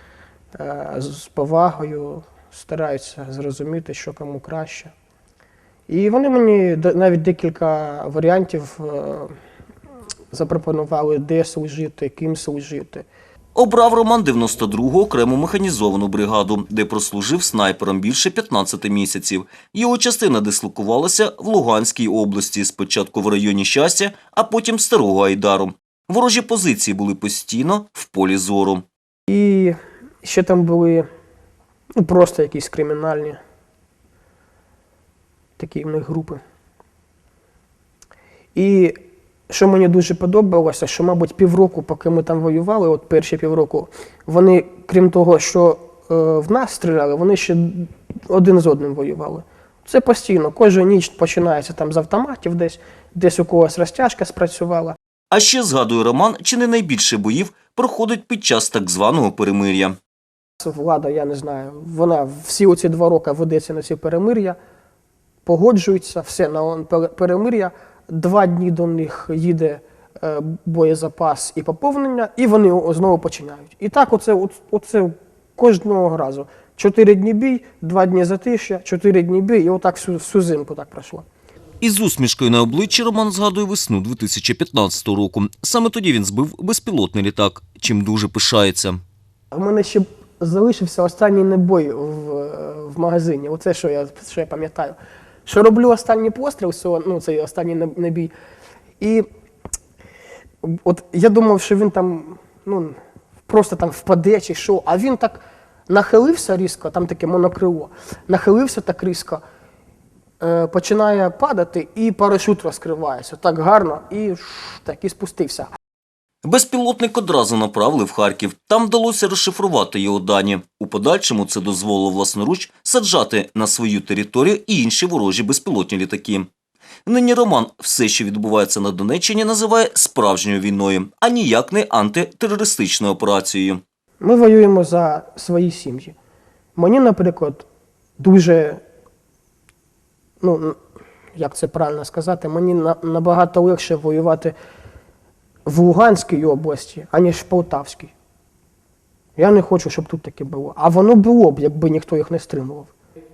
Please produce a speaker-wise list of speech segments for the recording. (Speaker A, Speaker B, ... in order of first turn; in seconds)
Speaker A: 0.5-4.9, 5.9-9.3, 10.3-13.1, 29.3-31.1, 32.0-33.4, 35.6-36.4, 38.5-39.0, 39.5-55.0, 60.6-64.6, 65.5-81.2, 89.5-98.3, 99.0-99.2, 100.6-109.4, 110.4-115.7, 134.2-136.1, 136.8-137.6, 138.2-138.8, 140.4-140.8, 141.4-144.5, 145.7-148.1, 149.4-152.9
Speaker B: 13.5-28.8, 55.3-59.9, 81.8-89.0, 116.4-126.5, 127.0-133.8